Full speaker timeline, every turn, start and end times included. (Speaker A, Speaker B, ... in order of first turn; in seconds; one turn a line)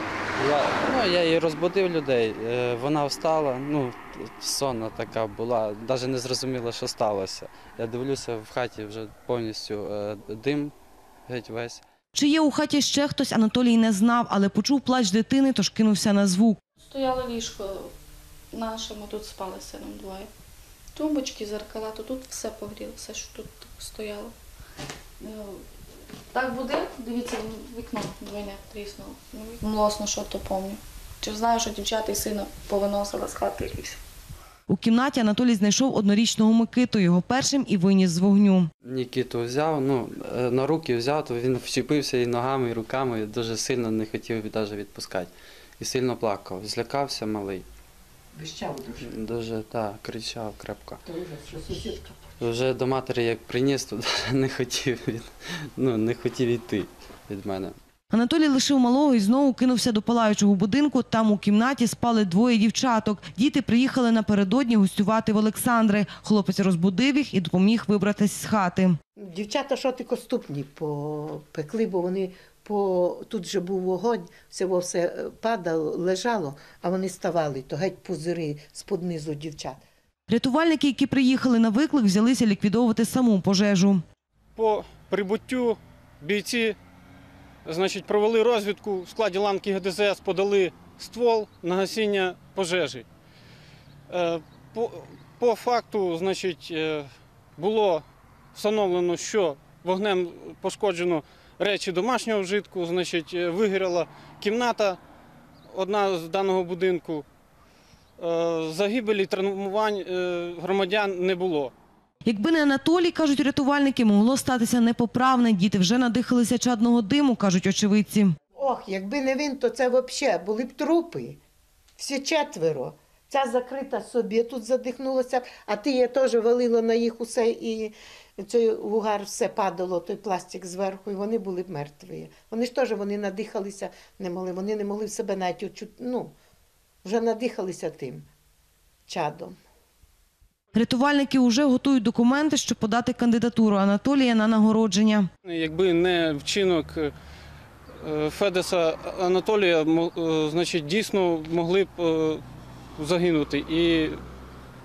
Speaker A: 0.4-10.7
Speaker A: 11.3-11.8
Speaker B: 12.1-16.6
Speaker C: 16.9-17.9
Speaker C: 18.5-20.3
Speaker C: 20.9-24.3
Speaker C: 25.2-25.6
Speaker C: 26.3-34.0
Speaker B: 34.7-38.7
Speaker A: 38.8-47.6
Speaker D: 48.3-49.1
Speaker A: 49.0-51.0
Speaker D: 51.0-52.1
Speaker A: 52.4-57.8
Speaker B: 58.1-69.0
Speaker D: 69.2-79.8
Speaker B: 80.3-84.0
Speaker E: 84.6-86.8
Speaker E: 87.7-93.1
Speaker E: 94.1-98.0
Speaker E: 98.5-105.0
Speaker E: 105.7-107.2
Speaker E: 108.2-111.7
Speaker B: 112.2-118.3
Speaker D: 118.5-121.4
Speaker D: 122.0-136.3
Speaker D: 137.0-138.3
Speaker D: 139.1-139.6
Speaker B: 140.7-145.3
Speaker E: 145.5-147.1
Speaker E: 148.0-152.4
Speaker E: 153.0-154.2